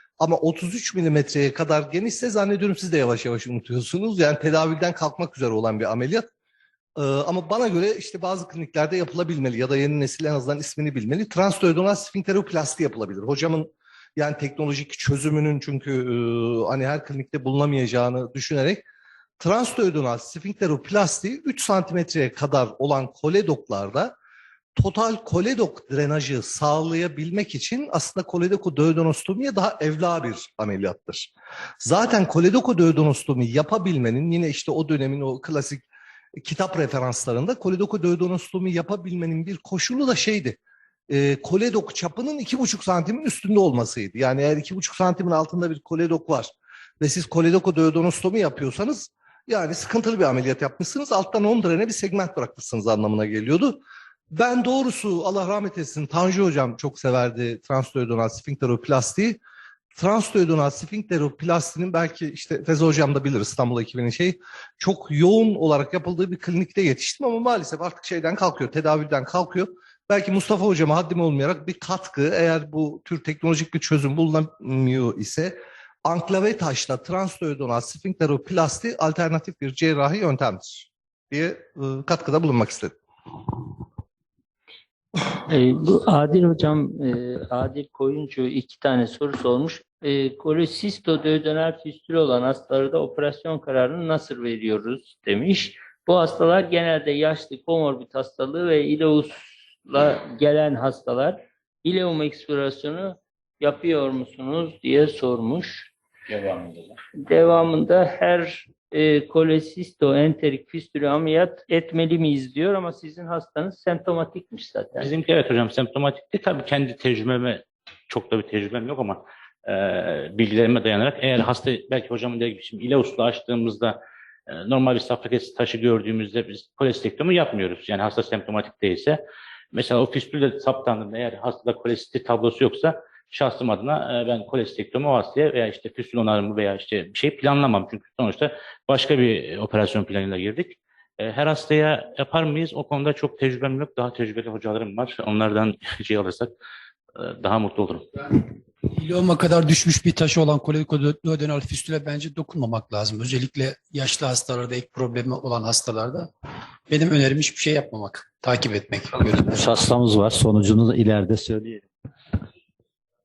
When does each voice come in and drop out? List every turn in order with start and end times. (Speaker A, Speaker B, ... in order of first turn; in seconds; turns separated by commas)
Speaker A: 0.2-6.3, Speaker A: 7.0-18.8, Speaker A: 19.4-24.1, Speaker A: 24.8-35.8, Speaker A: 36.4-40.6, Speaker A: 41.1-53.8, Speaker A: 54.3-59.4, Speaker A: 60.0-83.0, Speaker B: 85.5-105.9, Speaker C: 106.3-107.0, Speaker B: 107.2-115.1, Speaker D: 115.0-124.0, Speaker D: 124.5-129.2, Speaker D: 129.7-146.5, Speaker D: 147.2-148.1, Speaker E: 148.9-156.3, Speaker E: 156.9-159.6, Speaker C: 159.4-161.8